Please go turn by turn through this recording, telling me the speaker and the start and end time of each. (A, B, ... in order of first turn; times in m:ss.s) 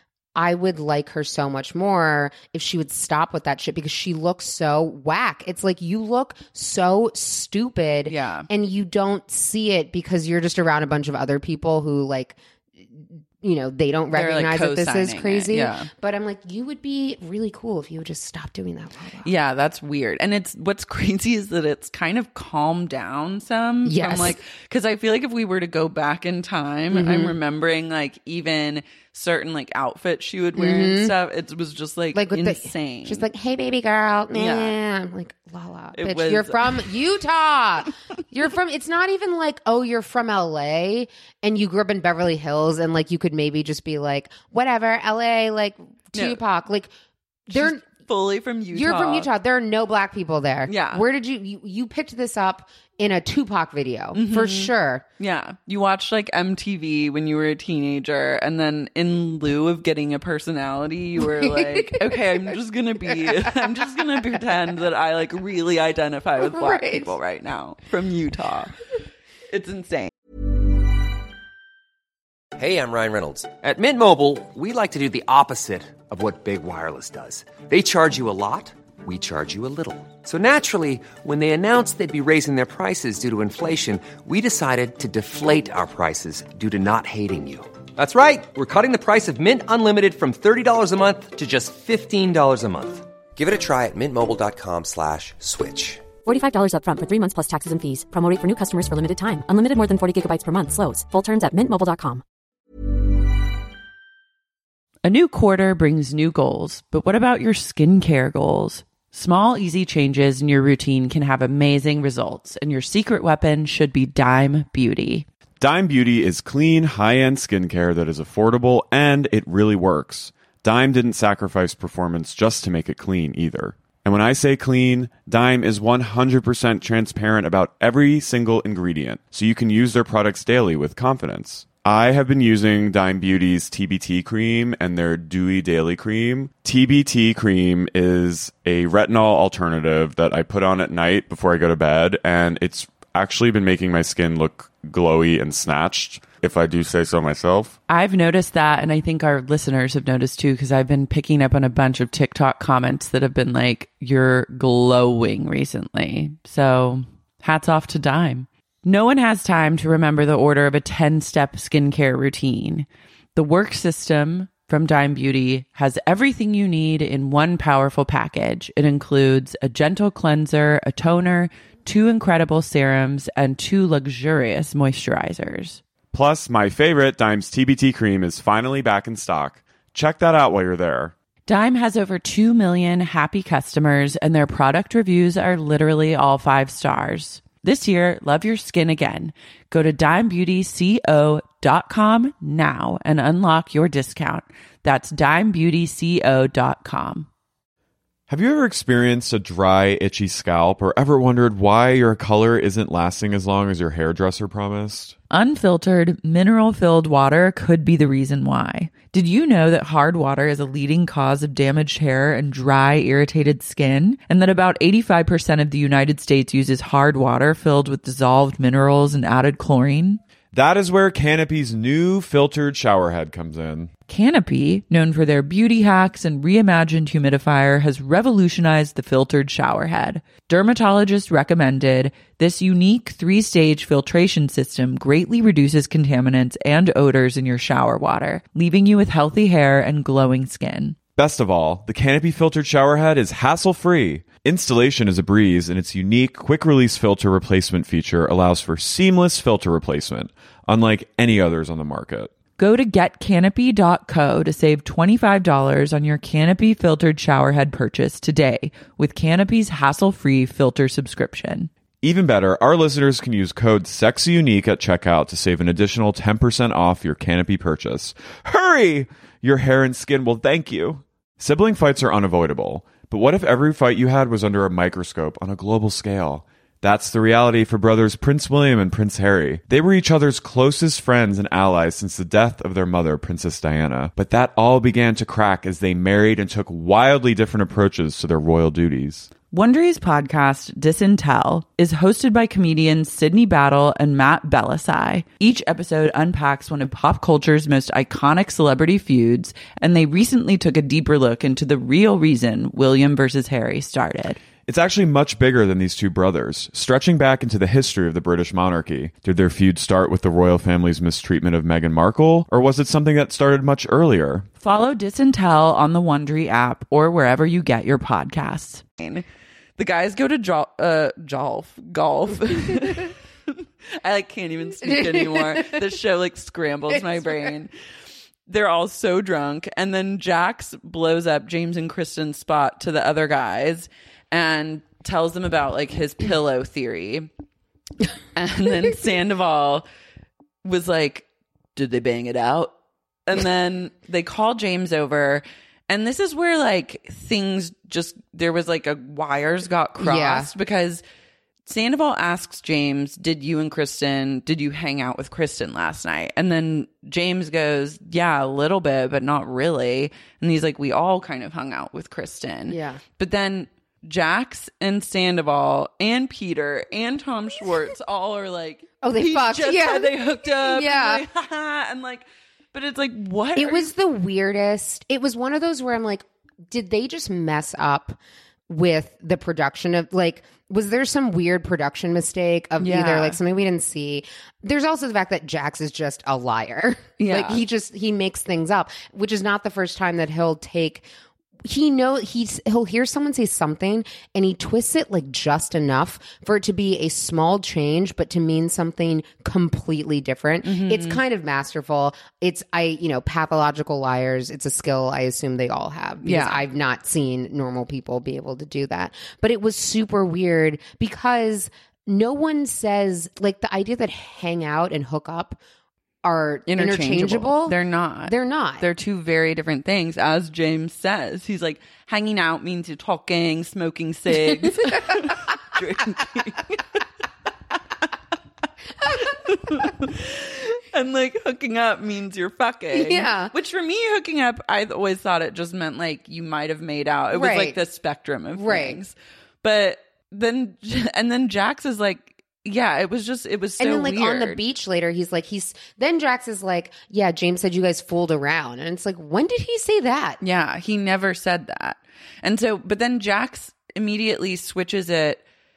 0:00.3-0:19.3 A
0:08.1-0:08.5 B
0:14.1-0:15.9 B
0:19.2-0:33.3 B
0:23.8-0:24.4 A
0:26.9-0:27.3 A
0:30.5-0:31.1 A
0:32.1-0:46.9 A
0:34.3-0:34.7 B
0:35.9-0:36.9 B
0:46.1-0:46.4 B
0:47.5-0:47.8 A
0:47.5-0:49.3 B
0:48.7-0:55.0 A
0:50.7-0:51.0 B
0:54.1-1:08.7 B
1:01.2-1:02.4 A
1:03.2-1:03.7 A
1:06.4-1:07.1 A
1:09.5-1:10.1 B
1:12.6-1:36.1 C
1:36.2-1:42.2 D
1:45.0-1:55.2 B
1:55.6-2:27.8 E
2:27.9-2:55.8 B
2:56.1-3:01.1 E
3:01.5-3:17.3 B
3:18.3-3:25.2 E
3:25.3-3:40.2 B
3:40.5-3:43.9 E
3:44.1-4:01.0 B
4:01.2-4:12.3 E
4:12.6-4:21.7 B
4:22.0-4:49.3 E
4:49.5-5:04.4 B
5:04.6-5:14.5 E
5:14.6-5:19.2 B
5:19.8-5:27.7 B
5:24.8-5:25.8 A
5:26.9-5:27.5 A
5:28.5-5:37.3 B
5:38.3-5:39.8 B
5:40.6-5:42.7 B
5:43.2-5:51.0 B
5:50.0-5:50.5 A
5:51.6-6:13.9 B
6:02.7-6:03.0 A
6:09.0-6:11.2 A
6:13.6-6:31.1 A
6:22.8-6:23.4 B
6:27.2-6:27.6 B
6:31.6-6:55.6 A
6:40.6-6:41.2 B
6:46.2-6:46.6 B
6:56.2-6:58.8 A
6:56.7-7:06.8 B
7:09.2-7:24.6 B
7:12.9-7:13.5 A
7:17.3-7:17.8 A
7:18.5-7:19.0 A
7:23.8-7:30.4 A
7:30.4-7:35.4 B